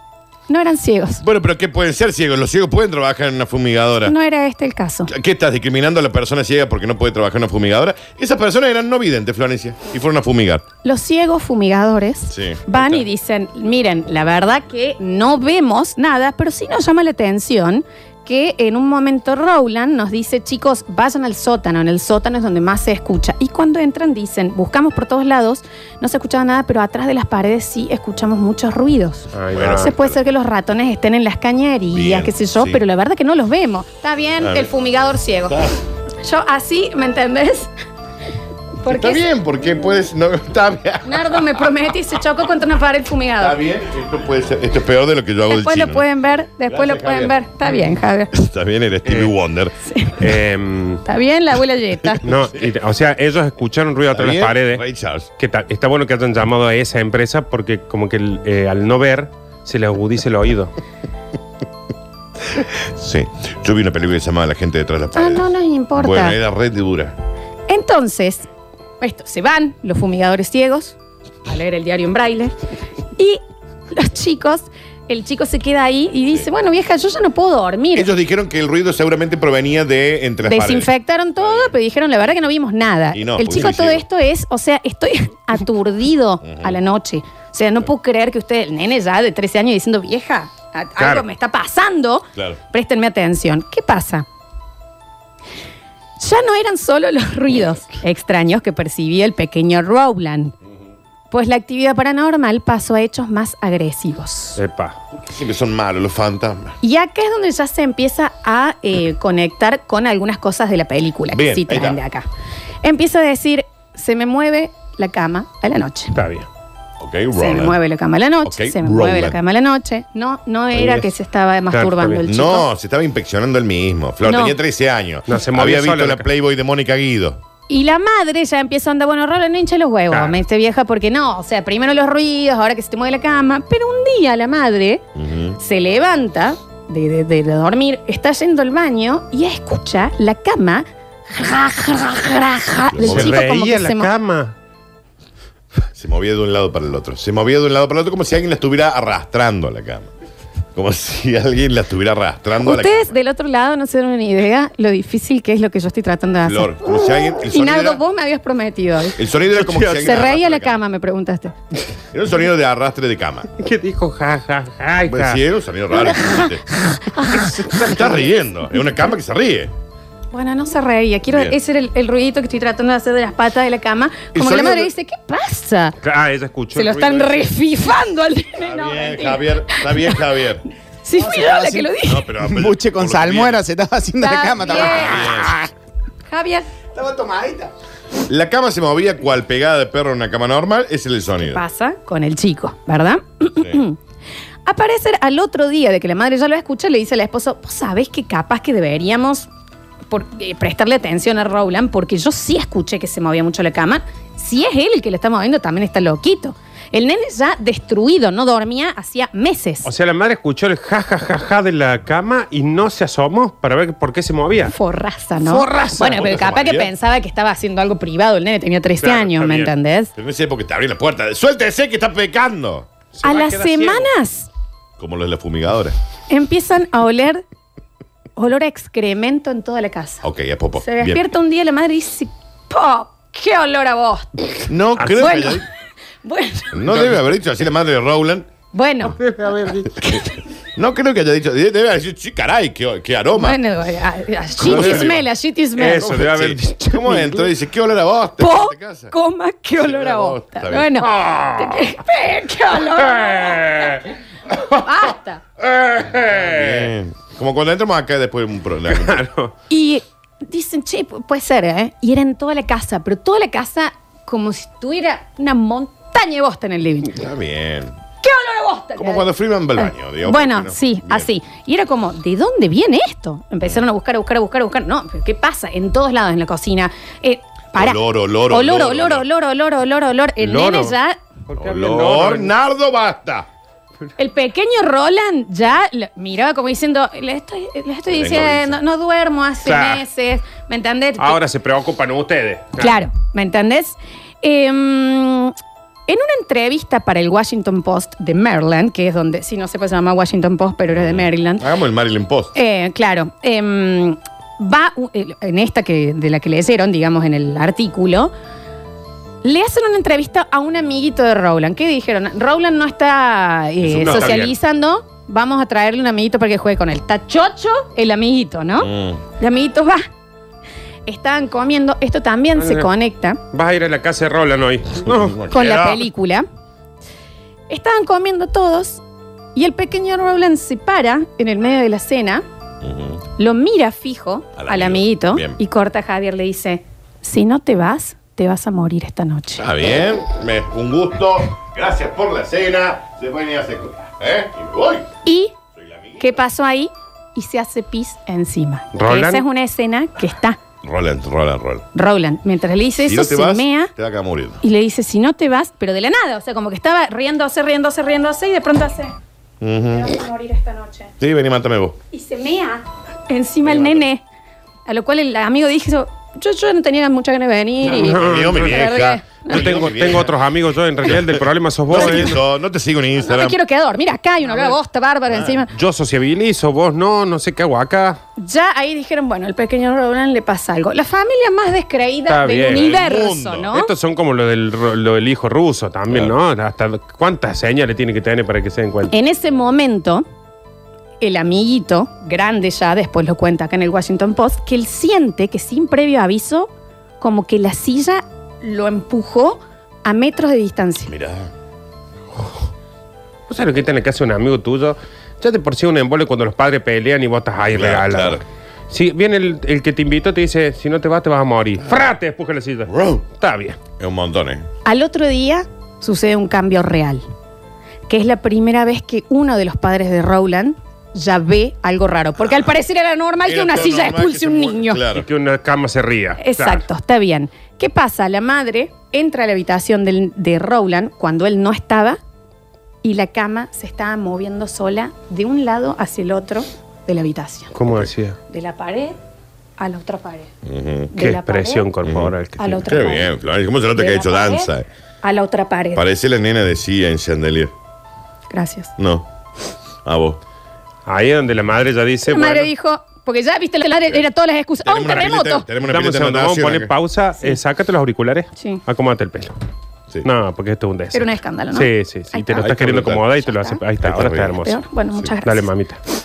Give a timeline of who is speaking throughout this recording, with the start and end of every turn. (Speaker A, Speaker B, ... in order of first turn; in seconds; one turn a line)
Speaker A: 0.5-1.2
Speaker B: 1.2-4.1
Speaker A: 4.1-5.1
Speaker B: 5.1-10.7
Speaker A: 10.8-35.6
Speaker B: 12.3-13.0
Speaker C: 29.3-29.9
Speaker B: 29.5-30.2
Speaker B: 31.9-32.8
Speaker B: 34.4-34.7
Speaker B: 35.5-35.7
Speaker A: 36.2-37.7
Speaker A: 38.8-39.3
Speaker B: 38.9-41.6
Speaker A: 41.0-43.6
Speaker B: 43.4-46.1
Speaker A: 45.5-48.3
Speaker B: 46.7-47.4
Speaker B: 48.3-49.8
Speaker C: 49.1-49.3
Speaker A: 49.9-50.2
Speaker C: 50.2-51.0
Speaker A: 51.0-52.2
Speaker C: 52.2-54.8
Speaker B: 54.1-55.3
Speaker C: 55.4-60.7
Speaker B: 62.5-67.2
Speaker A: 65.2-66.4
Speaker A: 67.7-68.5
Speaker A: 69.0-72.5
Speaker A: 73.9-78.1
Speaker B: 77.9-81.7
Speaker A: 80.5-94.3
Speaker B: 83.1-84.0
Speaker B: 86.4-86.8
Speaker C: 91.0-91.3
Speaker A: 96.2-100.5
Speaker A: 101.3-104.6
Speaker C: 104.6-105.0
Speaker B: 105.1-106.8
Speaker A: 106.8-112.3
Speaker B: 111.3-112.0
Speaker A: 112.8-116.2
Speaker C: 116.1-116.5
Speaker B: 117.0-117.8
Speaker A: 117.3-122.7
Speaker B: 118.4-119.4
Speaker C: 120.8-121.1
Speaker C: 121.7-122.2
Speaker B: 122.3-127.4
Speaker A: 124.2-124.5
Speaker C: 125.3-126.3
Speaker A: 127.7-135.0
Speaker C: 130.1-130.4
Speaker B: 135.2-135.6
Speaker A: 135.6-144.1
Speaker B: 142.9-143.5
Speaker C: 143.0-144.6
Speaker B: 146.0-150.1
Speaker B: 150.8-153.2
Speaker A: 152.6-159.2
Speaker B: 156.4-158.0
Speaker B: 159.2-160.8
Speaker C: 159.6-160.3
Speaker A: 160.0-161.5
Speaker B: 162.1-163.5
Speaker C: 163.6-165.4
Speaker B: 165.1-166.7
Speaker A: 167.1-167.9
Speaker C: 167.3-168.0
Speaker B: 167.8-169.7
Speaker A: 170.3-176.0
Speaker B: 171.3-171.6
Speaker B: 174.3-174.9
Speaker C: 176.0-177.5
Speaker A: 176.7-180.2
Speaker B: 178.6-180.6
Speaker A: 181.0-182.3
Speaker D: 181.2-185.4
Speaker B: 182.0-183.6
Speaker A: 184.2-185.5
Speaker B: 184.6-185.6
Speaker A: 186.3-186.7
Speaker B: 186.9-187.7
Speaker B: 188.3-191.6
Speaker A: 191.5-194.0
Speaker B: 193.5-193.8
Speaker A: 194.7-199.5
Speaker A: 200.1-209.9
Speaker C: 209.8-214.8
Speaker A: 214.7-220.1
Speaker C: 215.4-216.4
Speaker B: 216.0-216.9
Speaker C: 219.0-219.7
Speaker B: 220.2-222.9
Speaker C: 223.2-224.1
Speaker A: 223.2-224.5
Speaker B: 225.0-226.0
Speaker A: 226.3-227.4
Speaker A: 228.4-230.2
Speaker B: 230.2-231.2
Speaker A: 230.8-234.6
Speaker B: 234.7-235.7
Speaker C: 235.0-235.3
Speaker A: 235.1-235.6
Speaker A: 236.2-236.8
Speaker B: 236.7-238.5
Speaker C: 236.9-237.2
Speaker A: 238.7-239.2
Speaker C: 239.1-240.2
Speaker B: 240.8-243.6
Speaker A: 243.3-246.1
Speaker B: 244.6-245.2
Speaker C: 244.6-245.2
Speaker C: 245.8-247.5
Speaker B: 246.0-249.1
Speaker A: 248.4-253.9
Speaker B: 249.8-251.0
Speaker C: 251.0-251.9
Speaker C: 253.0-254.1
Speaker A: 254.7-255.4
Speaker C: 255.6-256.9
Speaker B: 256.3-259.2
Speaker C: 258.9-259.5
Speaker A: 259.7-267.2
Speaker B: 267.1-267.9
Speaker A: 268.2-281.2
Speaker B: 269.0-271.3
Speaker B: 277.8-279.2
Speaker C: 280.4-280.9
Speaker C: 281.5-282.5
Speaker B: 281.6-283.5
Speaker A: 284.2-291.4
Speaker B: 288.1-288.8
Speaker C: 289.6-290.0
Speaker C: 291.2-293.0
Speaker A: 292.8-295.6
Speaker A: 296.1-301.7
Speaker B: 300.9-302.5
Speaker A: 302.5-308.3
Speaker A: 309.4-320.1
Speaker C: 313.8-314.6
Speaker B: 318.8-319.2
Speaker A: 321.1-323.4
Speaker C: 322.6-322.9
Speaker C: 323.5-325.4
Speaker B: 325.1-326.0
Speaker A: 325.5-326.4
Speaker A: 327.7-329.0
Speaker A: 329.6-332.4
Speaker B: 332.8-333.2
Speaker A: 333.4-339.7
Speaker B: 334.6-335.6
Speaker B: 339.6-345.1
Speaker A: 345.2-345.5
Speaker B: 345.8-346.2
Speaker A: 346.2-350.6
Speaker C: 348.9-349.4
Speaker B: 350.8-351.9
Speaker A: 351.9-353.9
Speaker B: 353.0-354.6
Speaker A: 354.6-359.1
Speaker B: 359.6-360.1
Speaker A: 359.9-361.1
Speaker B: 361.2-362.0
Speaker A: 362.1-364.2
Speaker A: 364.9-369.9
Speaker C: 367.9-372.4
Speaker B: 368.0-370.4
Speaker B: 371.0-373.6
Speaker A: 371.9-372.4
Speaker A: 373.2-375.7
Speaker C: 374.4-374.8
Speaker B: 375.3-375.6
Speaker C: 375.7-378.2
Speaker A: 378.4-383.9
Speaker C: 382.3-382.9
Speaker B: 382.7-383.7
Speaker C: 383.7-389.1
Speaker A: 389.1-390.3
Speaker A: 391.2-401.1
Speaker B: 401.1-401.5
Speaker C: 403.5-413.8
Speaker B: 407.7-408.4
Speaker B: 412.9-413.2
Speaker B: 414.0-414.7
Speaker A: 414.9-417.2
Speaker A: 418.1-425.0
Speaker B: 423.4-425.3
Speaker C: 425.1-426.9
Speaker A: 426.4-432.2
Speaker A: 433.0-437.7
Speaker C: 437.8-438.4
Speaker B: 437.9-438.1
Speaker A: 438.5-439.2
Speaker A: 439.8-440.5
Speaker B: 440.6-441.1
Speaker A: 441.1-441.9
Speaker C: 441.2-442.9
Speaker B: 442.0-442.3
Speaker A: 442.6-443.3
Speaker B: 442.9-444.9
Speaker A: 443.9-444.7
Speaker A: 445.2-446.1
Speaker B: 445.9-447.7
Speaker A: 448.5-448.9
Speaker B: 449.0-449.3
Speaker B: 450.1-450.4
Speaker C: 451.1-452.7
Speaker A: 452.3-455.7
Speaker B: 454.8-456.9
Speaker C: 455.8-459.5
Speaker A: 458.6-458.8
Speaker C: 460.2-464.8
Speaker A: 461.1-462.7
Speaker B: 462.5-463.3
Speaker A: 463.4-463.8
Speaker B: 464.0-464.6
Speaker A: 464.6-465.7
Speaker C: 465.4-466.0